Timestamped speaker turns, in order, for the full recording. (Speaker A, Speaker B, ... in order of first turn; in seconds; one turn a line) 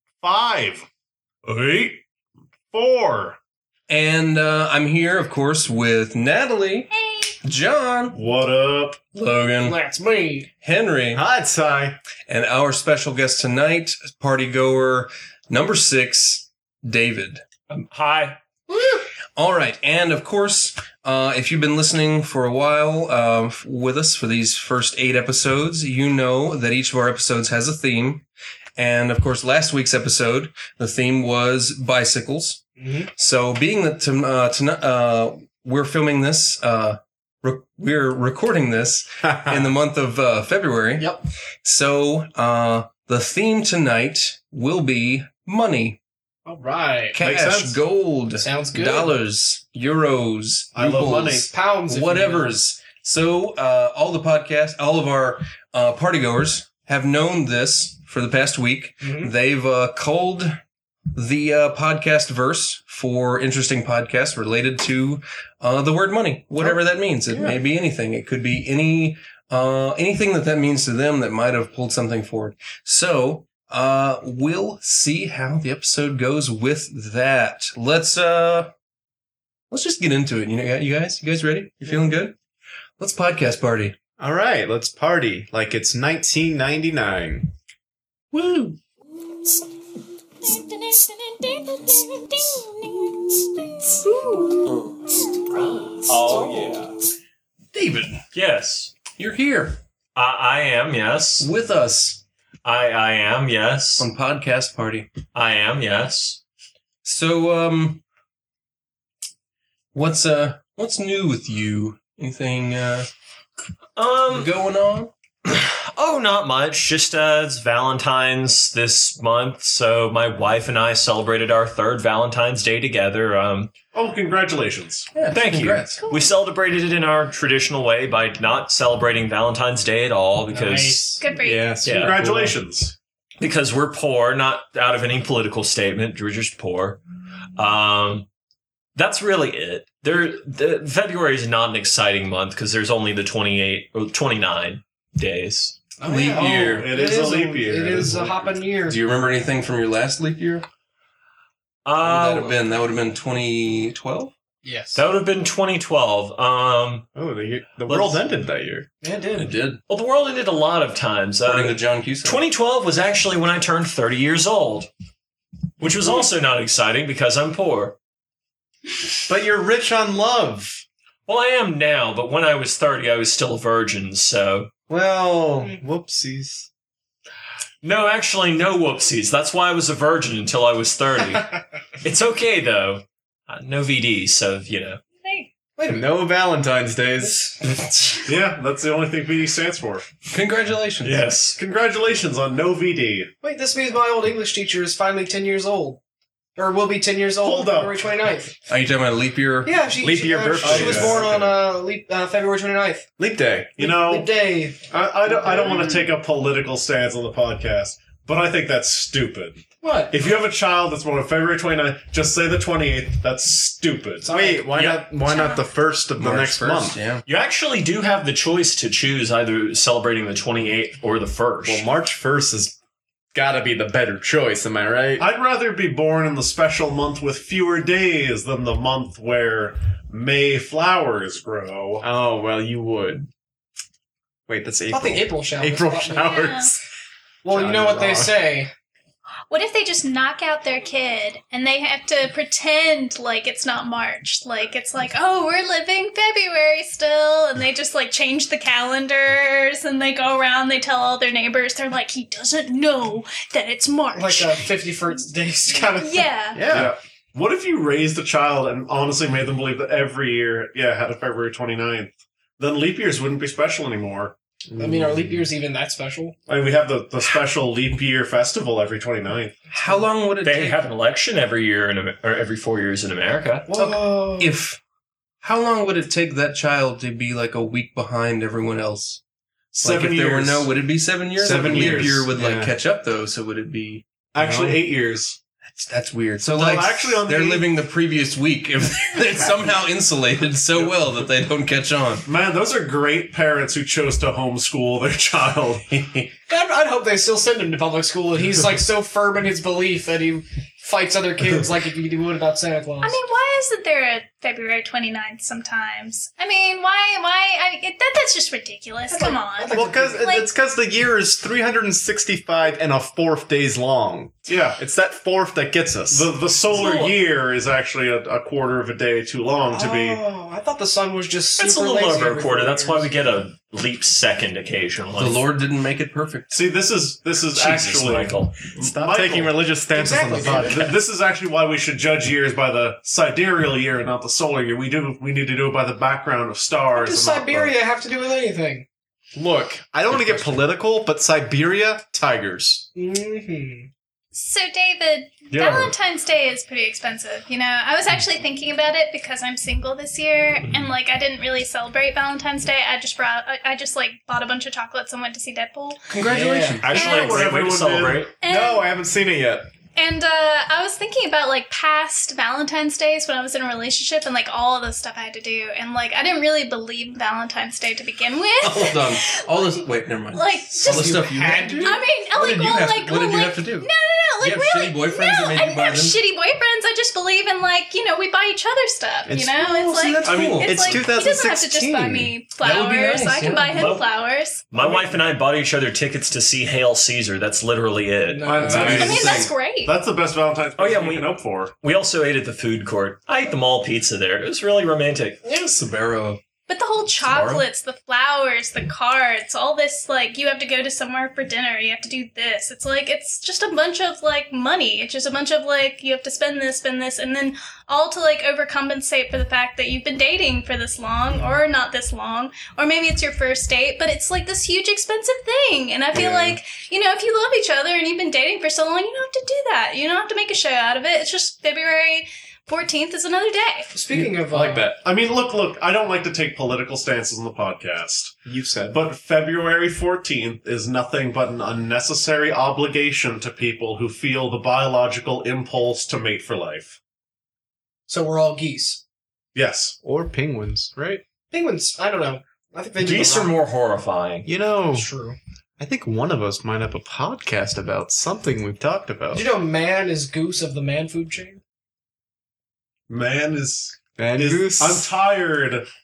Speaker A: 0.2-0.9
Speaker A: 1.4-2.0
Speaker A: 2.7-3.4
Speaker B: 3.9-6.9
Speaker C: 6.9-7.4
Speaker B: 7.4-8.2
Speaker A: 8.1-9.0
Speaker B: 9.1-9.8
Speaker D: 9.6-10.5
Speaker B: 10.6-11.2
Speaker E: 11.1-12.0
Speaker B: 12.3-17.4
Speaker F: 17.7-18.4
Speaker B: 18.7-28.2
Speaker B: 28.8-41.1
Speaker D: 32.8-33.1
Speaker E: 39.2-39.7
Speaker B: 41.6-46.0
Speaker D: 46.5-47.2
Speaker B: 47.1-60.6
Speaker A: 47.2-47.8
Speaker D: 48.4-49.1
Speaker A: 50.7-51.5
Speaker D: 51.5-52.5
Speaker D: 59.0-59.3
Speaker B: 61.1-78.7
Speaker B: 79.7-82.3
Speaker B: 83.0-84.0
Speaker E: 84.2-87.5
Speaker B: 88.3-88.8
Speaker C: 90.6-92.0
Speaker F: 96.0-96.9
Speaker D: 96.3-96.7
Speaker B: 97.7-98.2
Speaker F: 98.3-99.0
Speaker B: 99.2-99.8
Speaker F: 100.2-101.5
Speaker B: 101.4-102.2
Speaker F: 102.6-104.1
Speaker B: 104.0-105.1
Speaker F: 105.3-106.4
Speaker B: 107.0-108.0
Speaker B: 109.9-113.1
Speaker F: 114.0-114.5
Speaker B: 114.3-115.1
Speaker F: 115.5-123.7
Speaker A: 123.9-125.1
Speaker B: 125.1-126.0
Speaker F: 125.3-131.2
Speaker C: 126.0-126.3
Speaker D: 130.5-131.2
Speaker C: 131.2-131.7
Speaker E: 131.4-132.6
Speaker F: 131.8-132.2
Speaker A: 131.8-132.9
Speaker F: 133.4-137.0
Speaker F: 137.6-138.3
Speaker F: 139.0-145.8
Speaker D: 146.0-149.0
Speaker B: 146.0-146.9
Speaker A: 146.3-148.6
Speaker B: 148.9-150.7
Speaker F: 151.8-152.6
Speaker B: 152.0-154.3
Speaker D: 154.6-155.0
Speaker F: 154.9-157.1
Speaker E: 157.2-158.9
Speaker F: 157.9-158.4
Speaker D: 159.0-159.6
Speaker B: 159.5-159.8
Speaker F: 159.6-164.9
Speaker B: 161.5-162.4
Speaker F: 165.8-168.0
Speaker E: 169.3-170.8
Speaker F: 171.3-174.7
Speaker E: 174.9-176.7
Speaker F: 177.8-185.0
Speaker C: 185.2-185.5
Speaker E: 185.8-187.5
Speaker A: 188.3-190.1
Speaker B: 190.3-191.3
Speaker F: 191.0-191.6
Speaker A: 191.6-193.3
Speaker D: 193.4-196.0
Speaker D: 196.6-198.5
Speaker A: 197.4-198.1
Speaker B: 198.7-199.8
Speaker D: 199.6-203.1
Speaker E: 200.0-201.5
Speaker A: 200.6-201.3
Speaker E: 203.2-203.8
Speaker A: 203.8-204.3
Speaker D: 203.8-206.1
Speaker A: 204.9-214.3
Speaker D: 209.8-210.1
Speaker D: 214.2-214.7
Speaker E: 214.3-217.0
Speaker F: 214.8-215.0
Speaker C: 215.2-215.7
Speaker B: 216.2-217.2
Speaker F: 217.3-221.9
Speaker E: 221.6-222.8
Speaker E: 223.3-225.3
Speaker A: 225.2-232.1
Speaker E: 232.0-233.3
Speaker E: 234.5-236.8
Speaker D: 234.9-236.5
Speaker C: 236.1-236.7
Speaker D: 237.4-238.7
Speaker E: 237.5-238.3
Speaker C: 239.5-254.7
Speaker D: 254.1-256.2
Speaker C: 255.9-256.7
Speaker E: 256.6-256.9
Speaker A: 256.7-264.4
Speaker D: 264.8-266.4
Speaker A: 266.5-269.6
Speaker B: 269.7-270.8
Speaker F: 270.4-273.7
Speaker D: 273.7-274.5
Speaker B: 274.4-274.8
Speaker B: 275.4-279.2
Speaker A: 279.8-280.7
Speaker B: 279.8-284.1
Speaker E: 281.4-282.7
Speaker A: 281.4-282.2
Speaker A: 284.3-285.4
Speaker E: 284.4-284.8
Speaker B: 285.6-292.3
Speaker A: 286.5-287.7
Speaker A: 292.3-296.3
Speaker D: 296.5-303.2
Speaker C: 303.0-310.5
Speaker D: 309.1-310.3
Speaker E: 309.7-316.3
Speaker A: 314.5-314.8
Speaker A: 316.1-320.2
Speaker D: 316.8-317.1
Speaker D: 319.7-323.1
Speaker F: 321.6-325.4
Speaker B: 325.2-326.5
Speaker A: 326.5-329.7
Speaker F: 327.5-328.6
Speaker E: 328.8-330.9
Speaker D: 329.9-330.9
Speaker A: 330.4-337.8
Speaker D: 336.9-338.9
Speaker E: 339.4-342.9
Speaker D: 342.9-343.9
Speaker C: 344.3-356.0
Speaker A: 345.5-345.9
Speaker B: 356.1-356.9
Speaker D: 356.3-356.8
Speaker F: 356.8-358.3
Speaker A: 356.9-358.3
Speaker C: 356.9-357.4
Speaker C: 358.4-358.9
Speaker E: 358.4-359.7
Speaker C: 360.0-371.3
Speaker B: 368.6-373.9
Speaker D: 370.8-372.0
Speaker C: 371.8-384.7
Speaker B: 374.4-376.2
Speaker E: 379.3-382.3
Speaker B: 380.1-380.7
Speaker A: 380.2-381.0
Speaker B: 382.6-384.0
Speaker F: 383.8-384.1
Speaker F: 384.7-388.9
Speaker D: 388.3-389.0
Speaker A: 388.5-391.7
Speaker B: 388.6-389.5
Speaker C: 388.9-389.9
Speaker F: 390.8-395.4
Speaker D: 395.4-395.7
Speaker B: 395.7-396.4
Speaker C: 396.7-423.9
Speaker F: 397.2-397.6
Speaker D: 423.9-424.9
Speaker E: 424.5-425.0
Speaker A: 424.9-428.4
Speaker E: 428.5-429.0
Speaker A: 428.9-437.0
Speaker D: 438.1-439.0
Speaker A: 439.6-440.0
Speaker E: 440.0-441.2
Speaker D: 441.5-443.6
Speaker F: 443.0-444.5
Speaker E: 444.5-445.1
Speaker D: 444.9-445.4
Speaker E: 445.8-449.4
Speaker D: 449.3-451.6
Speaker A: 453.1-455.9
Speaker E: 454.2-455.1